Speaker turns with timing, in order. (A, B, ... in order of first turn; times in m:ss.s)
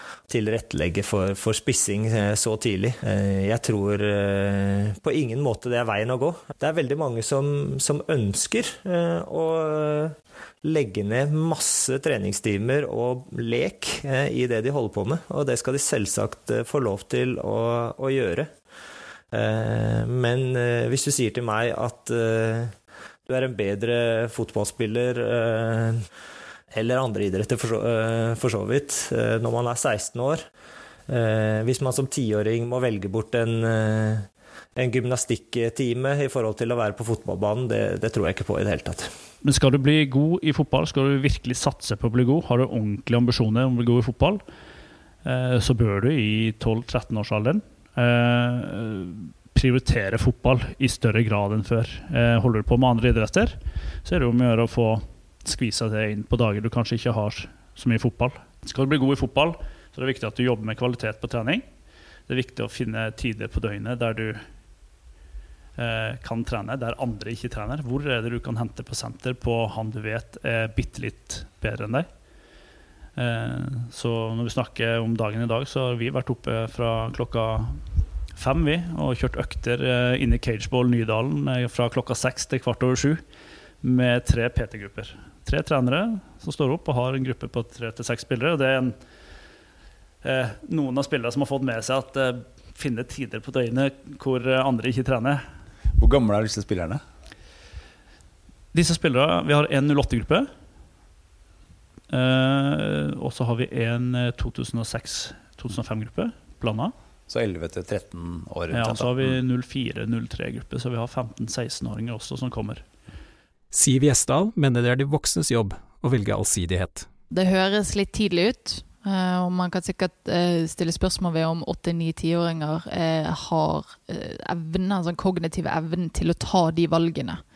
0:00.3-0:18.5 A
0:19.3-0:22.8 A
0:23.3-0:26.0 A
0:26.7-0:30.5 A
0:31.1-0:39.2 A
0:39.4-0:44.4 B
0:45.2-1:01.7 B
1:02.2-1:04.5 B
1:05.8-1:12.1 B
1:13.2-1:23.3 B
1:23.8-1:29.0 B
1:30.2-1:35.4 B
1:36.0-1:37.0 C
1:38.7-1:40.5 B
1:42.1-1:46.9 B
1:47.3-1:49.4 C
1:48.7-1:52.9 B
1:53.7-1:57.1 D
1:57.3-2:07.4 E